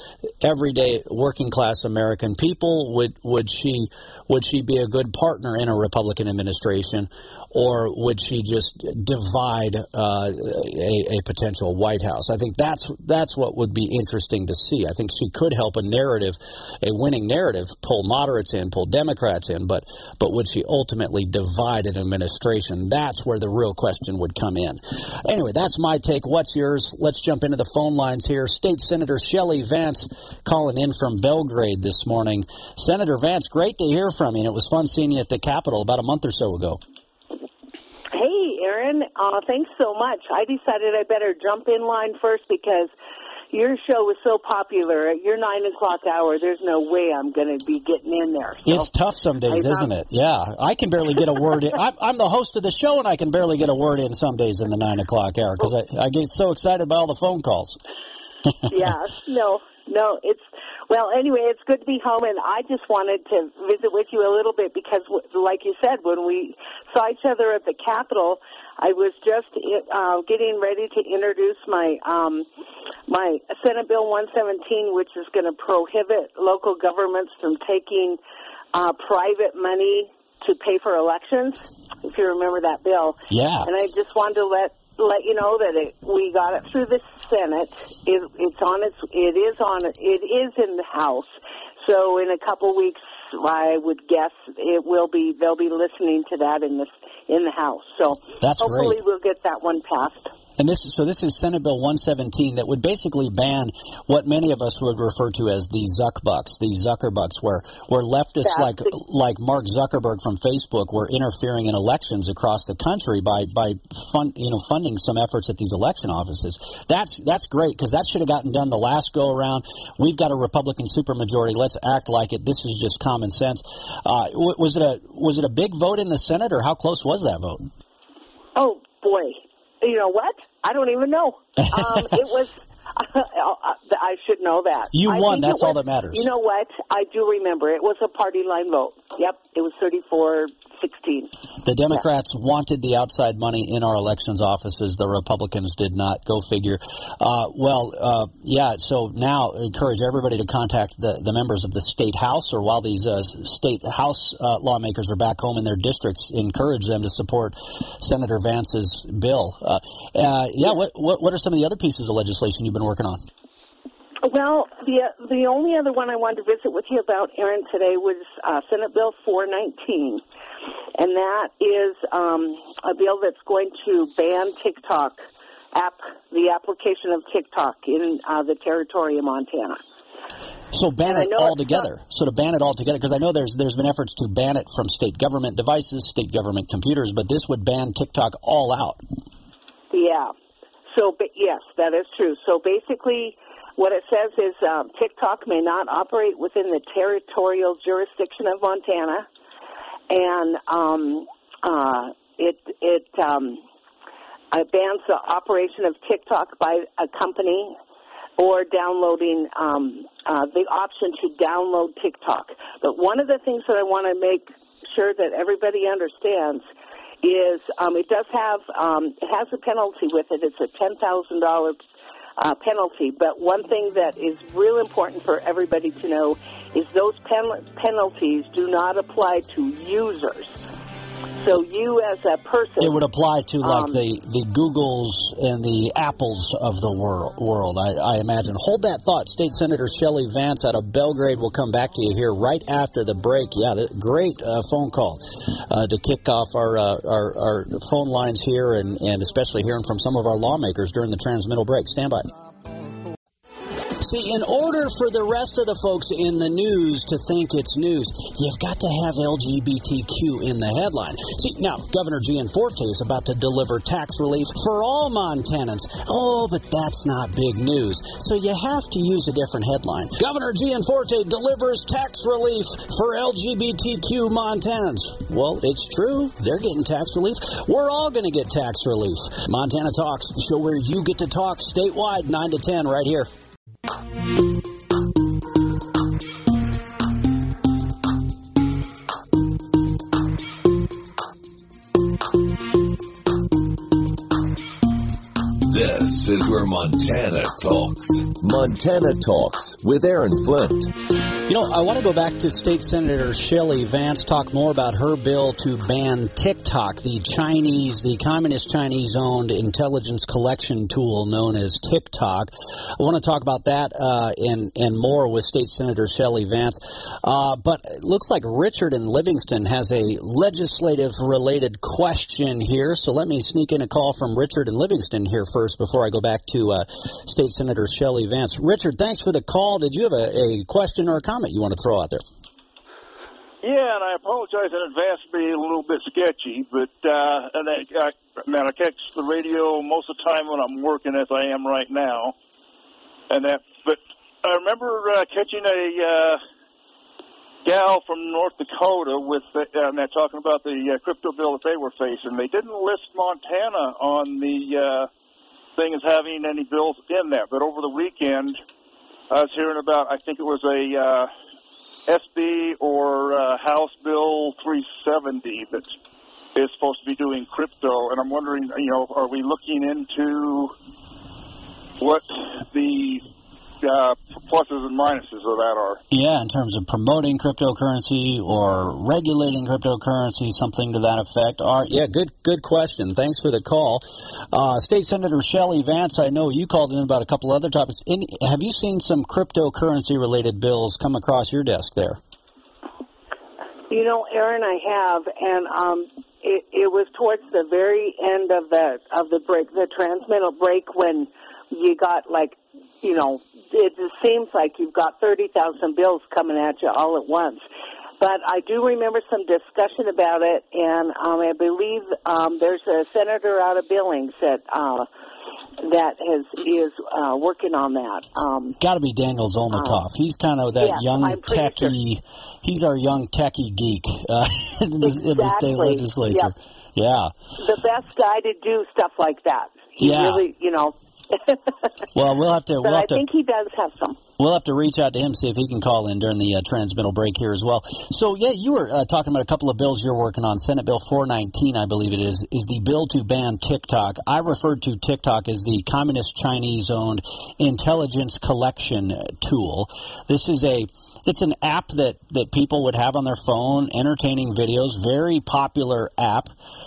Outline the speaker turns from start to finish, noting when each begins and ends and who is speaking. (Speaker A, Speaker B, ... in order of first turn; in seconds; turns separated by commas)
Speaker A: 0.4-36.8, Speaker B: 38.1-42.9, Speaker B: 43.5-48.9, Speaker A: 48.6-57.8, Speaker B: 49.5-49.9, Speaker B: 58.7-72.5, Speaker B: 73.1-78.2, Speaker B: 78.7-91.3, Speaker A: 83.3-83.7, Speaker B: 91.8-100.3, Speaker A: 98.4-99.0, Speaker A: 100.6-127.6, Speaker B: 108.4-108.9, Speaker B: 128.6-141.3, Speaker A: 134.9-136.3, Speaker A: 141.6-163.2, Speaker B: 164.2-170.2, Speaker B: 170.9-175.2, Speaker B: 175.7-179.8, Speaker A: 180.7-189.0, Speaker B: 181.1-181.9, Speaker B: 189.9-190.3, Speaker B: 190.9-199.2, Speaker B: 200.1-203.6, Speaker B: 204.5-207.7, Speaker B: 208.4-216.6, Speaker B: 217.2-221.8, Speaker B: 222.4-230.5, Speaker B: 231.4-233.0, Speaker A: 232.8-252.3, Speaker B: 233.6-234.0, Speaker A: 254.0-283.3, Speaker C: 295.7-300.9, Speaker A: 301.4-332.2, Speaker D: 333.6-342.3, Speaker D: 343.3-346.4, Speaker D: 347.6-355.1, Speaker D: 355.8-358.6, Speaker D: 359.3-361.3, Speaker D: 362.1-365.9, Speaker D: 366.5-370.7, Speaker D: 372.0-373.2, Speaker D: 373.8-376.0, Speaker A: 376.1-392.2, Speaker B: 393.9-407.6, Speaker B: 408.2-415.1, Speaker B: 415.8-418.8, Speaker A: 418.8-427.3, Speaker B: 419.7-420.0, Speaker B: 420.8-421.9, Speaker B: 425.0-426.5, Speaker B: 427.6-431.7, Speaker A: 430.0-430.4, Speaker A: 432.1-433.2, Speaker B: 432.8-434.2, Speaker A: 434.4-456.5